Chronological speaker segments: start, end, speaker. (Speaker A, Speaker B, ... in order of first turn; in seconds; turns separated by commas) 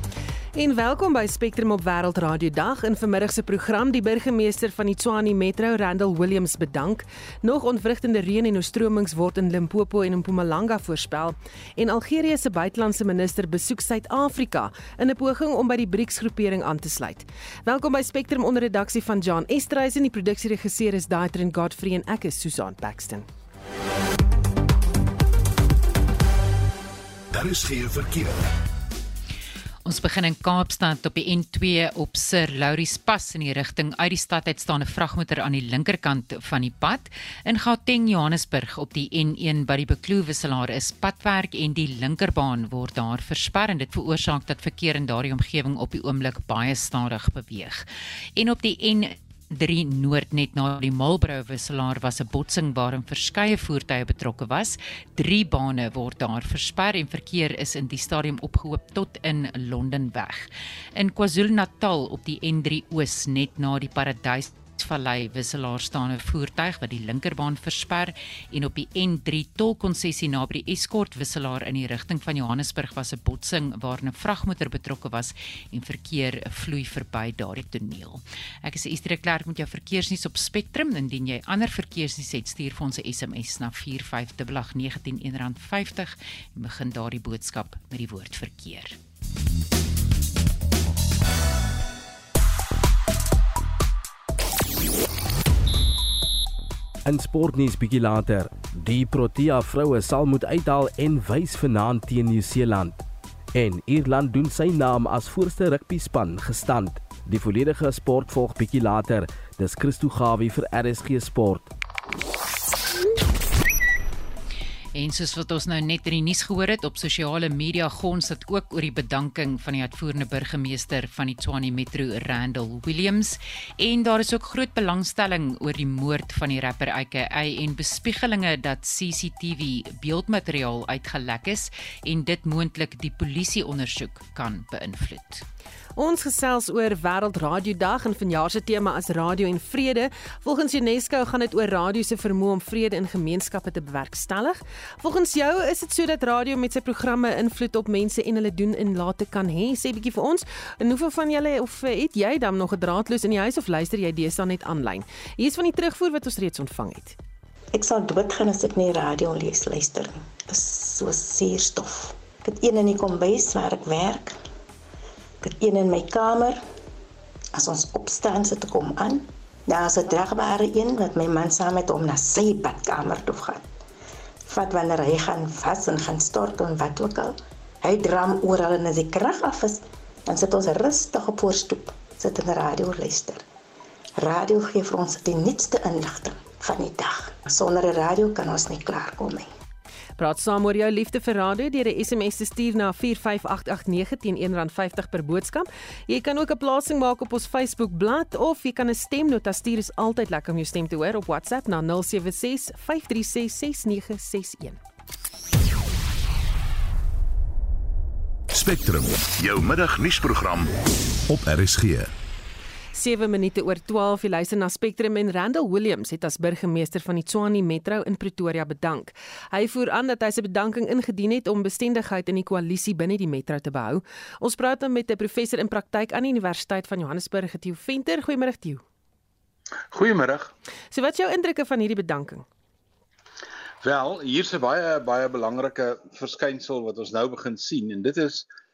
Speaker A: 0.5-23.2, Speaker B: 27.3-28.4, Speaker C: 29.8-47.9, Speaker C: 48.4-89.0, Speaker D: 97.0-103.0, Speaker D: 103.5-111.7, Speaker C: 114.9-135.4, Speaker A: 135.9-157.2, Speaker E: 157.7-164.4, Speaker E: 165.4-166.6, Speaker E: 167.5-173.6, Speaker E: 174.5-183.4, Speaker E: 184.2-189.5, Speaker A: 190.2-204.8, Speaker B: 208.5-210.7, Speaker B: 211.3-212.1, Speaker A: 212.9-228.8, Speaker F: 229.9-230.5, Speaker A: 230.9-232.4, Speaker F: 233.8-238.5